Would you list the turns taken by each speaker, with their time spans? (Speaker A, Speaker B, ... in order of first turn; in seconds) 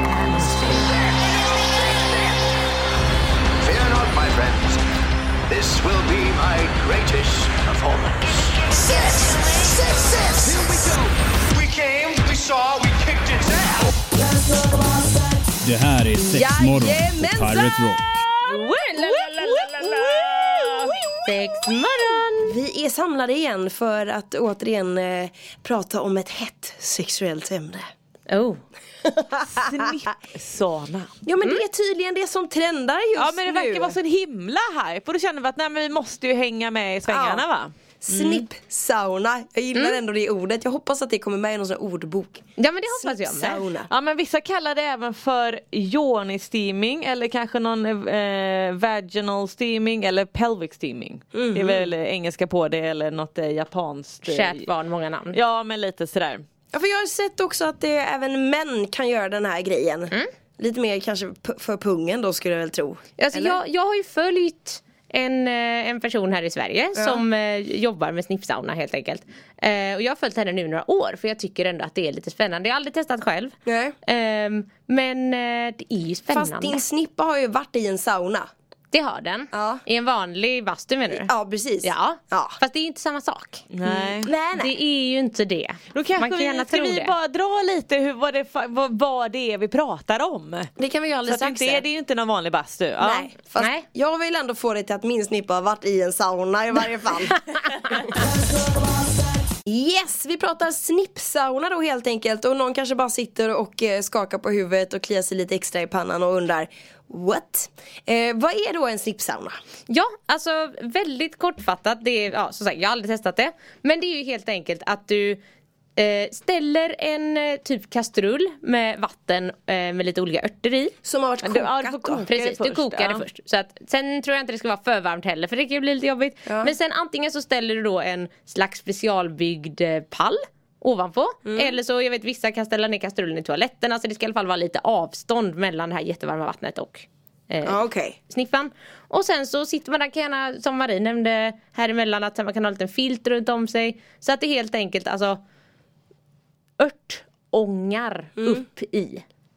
Speaker A: 0.2-0.8, 18.5-20.9, 29.4-31.1, 33.2-38.5, 43.9-54.7, 55.3-56.4, 83.7-84.3, 85.9-90.7, 91.3-93.3, 121.4-123.2
Speaker B: 3.6-4.8, 5.5-13.9
Speaker C: 15.6-18.0
Speaker D: 16.2-17.8, 19.0-21.3, 22.1-27.9, 31.2-34.0, 37.1-37.5, 38.0-43.9, 51.3-51.9, 56.7-63.6, 67.0-67.2, 73.7-74.0, 76.3-78.5, 79.5-79.8, 81.1-82.6, 83.8-84.8, 90.8-91.8, 93.0-97.5, 99.7-109.6, 121.0-122.3, 126.5-126.7, 131.4-131.8, 137.6-138.2, 148.4-148.7
Speaker E: 18.9-19.5, 21.3-22.6, 28.3-28.6, 39.8-40.0, 42.6-43.6, 54.2-55.4, 63.2-76.8, 78.9-81.3, 81.8-83.7, 84.5-87.1, 93.6-93.8, 109.9-115.4, 116.0-121.0, 122.3-145.4, 146.8-149.2